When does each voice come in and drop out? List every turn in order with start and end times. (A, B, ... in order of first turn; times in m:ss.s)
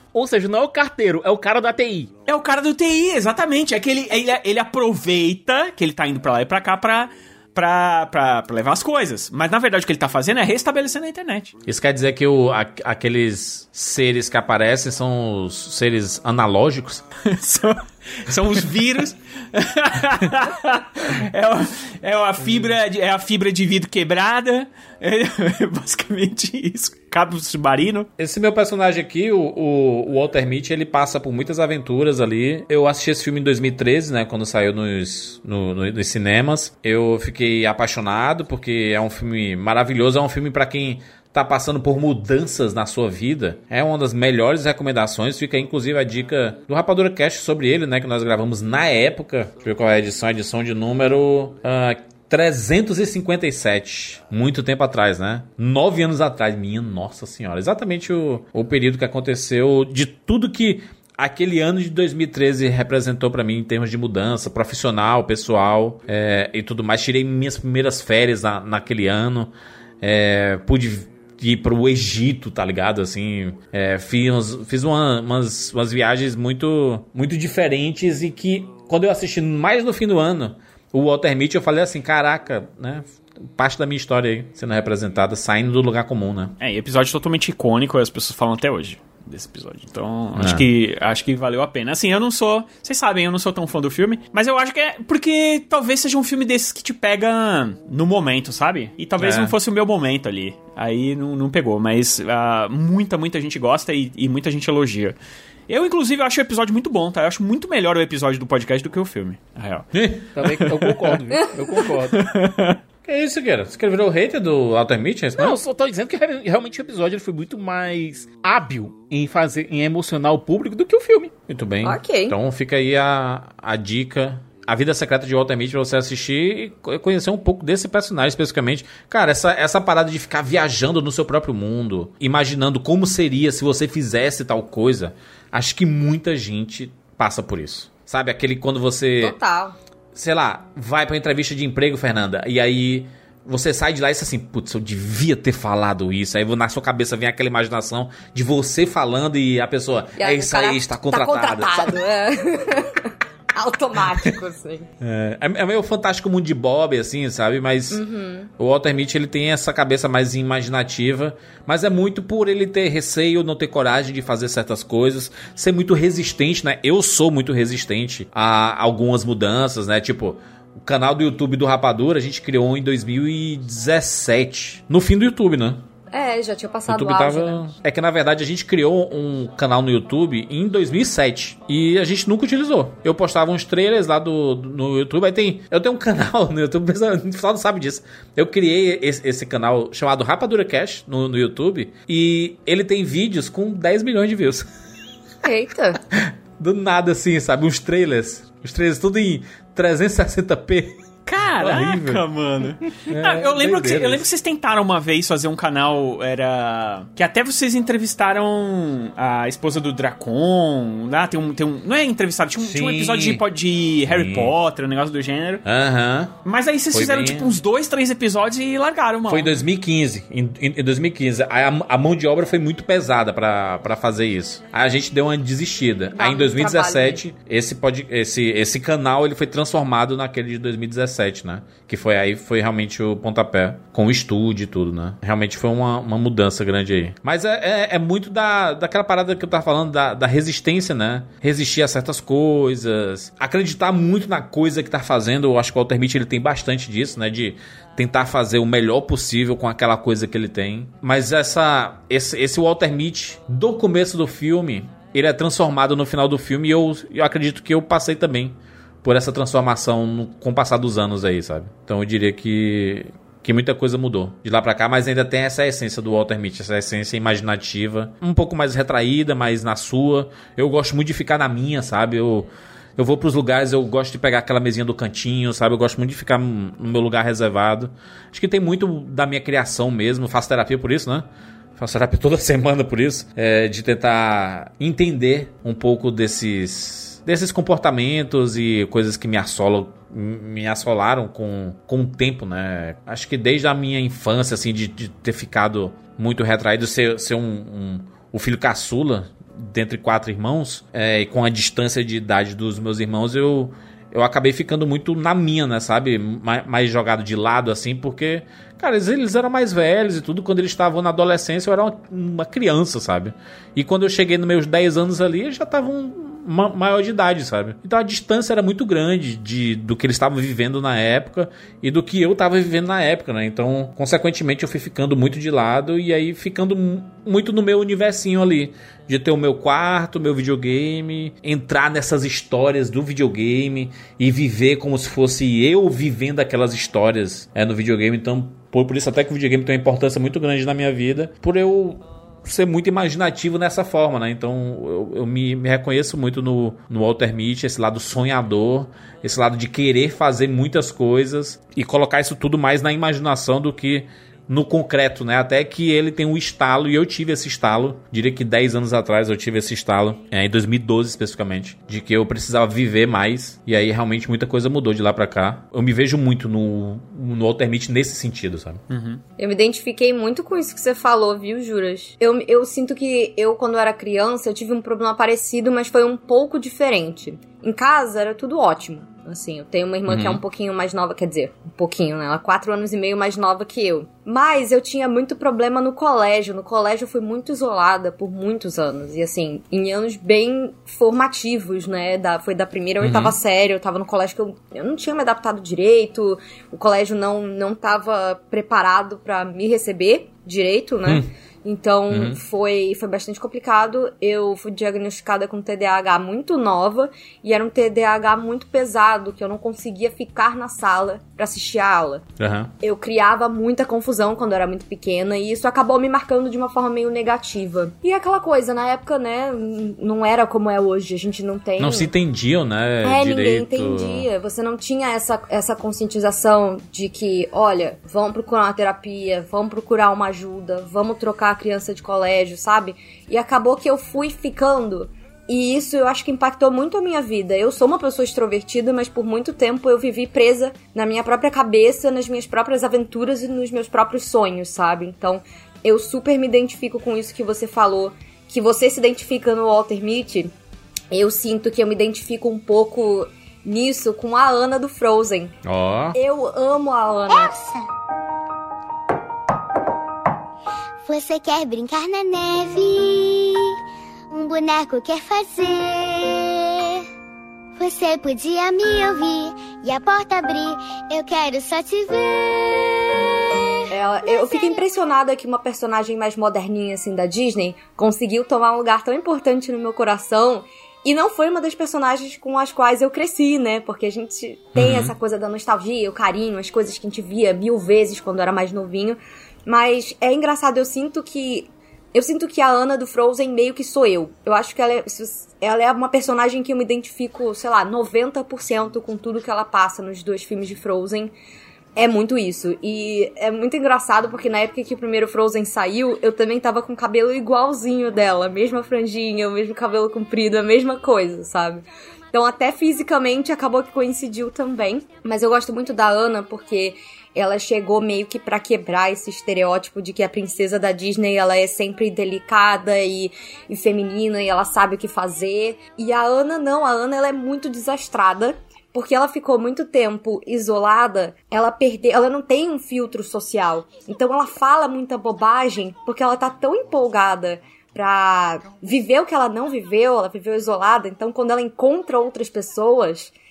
0:00.1-0:02.1 A
0:02.3-0:11.5 B
0:11.6-0:17.0 C
0:17.3-0:28.1 B
0:28.2-1:26.5 C
1:26.6-1:45.2 B
1:30.4-1:30.6 C
1:39.2-1:39.6 C
1:45.7-1:49.9 B
1:49.9-1:50.2 C
1:50.4-1:52.2 A
1:50.5-1:51.1 B
1:52.2-1:52.8 B
1:53.0-1:55.6 C
1:55.4-2:01.3 A
2:01.5-2:19.4 C
2:01.8-2:02.4 D
2:19.2-2:19.8 D
2:20.1-2:32.0 C
2:30.2-2:34.9 D
2:35.0-2:38.0 C
2:37.9-2:38.5 D
2:38.6-2:55.8 C
2:56.1-2:57.6 D
2:56.9-3:14.6 C
3:15.4-3:16.0 D
3:16.2-3:22.2 C
3:21.3-3:35.6 B
3:23.1-3:24.2 C
3:32.6-3:33.4 C
3:34.1-3:34.5 C
3:35.6-3:36.3 C
3:36.4-3:39.6 B
3:36.9-3:37.6 C
3:39.3-6:08.8 C
3:46.1-3:47.2 D
6:08.9-6:09.2 B
6:09.4-6:52.2 D
6:20.1-6:20.4 C
6:33.0-6:33.4 C
6:42.1-6:42.4 C
6:52.4-6:52.7 C
6:52.8-7:02.1 D
7:01.8-7:04.3 C
7:03.0-7:30.5 D
7:31.1-7:35.5 D
7:35.6-7:36.2 C
7:36.1-7:37.5 D
7:37.3-7:37.8 E
7:41.0-7:43.8 E
7:44.3-7:47.0 E
7:47.8-7:52.9 E
7:53.9-8:21.3 D
7:54.3-7:54.8 E
8:04.7-8:05.1 C
8:22.0-9:03.3 D